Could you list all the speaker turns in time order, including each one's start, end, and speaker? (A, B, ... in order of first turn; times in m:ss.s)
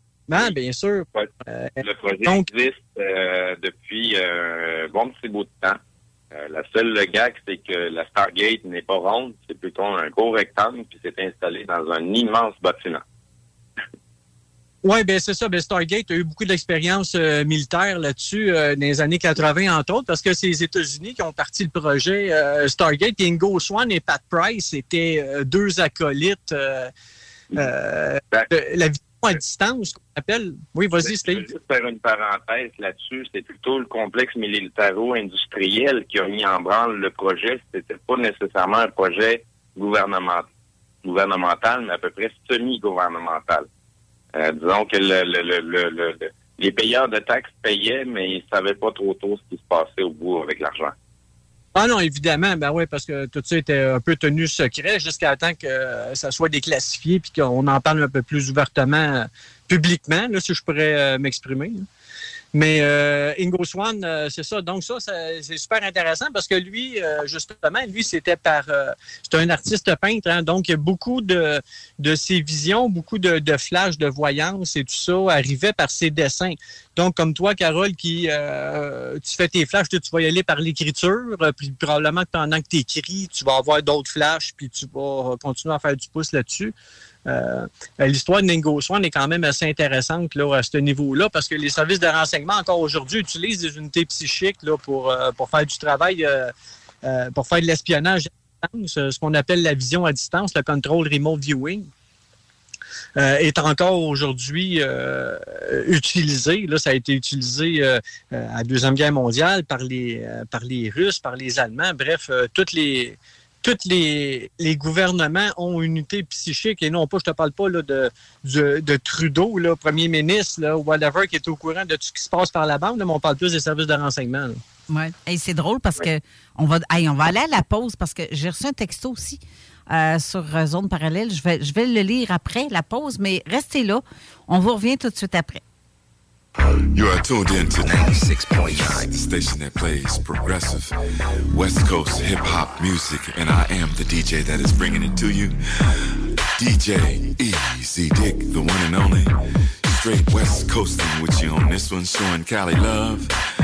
0:00.3-0:02.5 A
0:01.8-0:05.8 B
0:06.3-0:13.0 B
0:14.8-0:26.9 A
0:27.5-0:31.5 A
0:31.0-0:40.4 B
0:41.0-0:43.7 B
0:44.4-0:50.9 B
0:51.7-1:01.8 A
1:02.5-1:26.7 A
1:27.3-1:36.5 A
1:37.0-1:41.9 A
1:43.2-2:04.6 A
2:04.9-2:15.6 C
2:16.6-2:20.9 D
2:21.5-2:25.6 D
2:26.6-2:33.3 D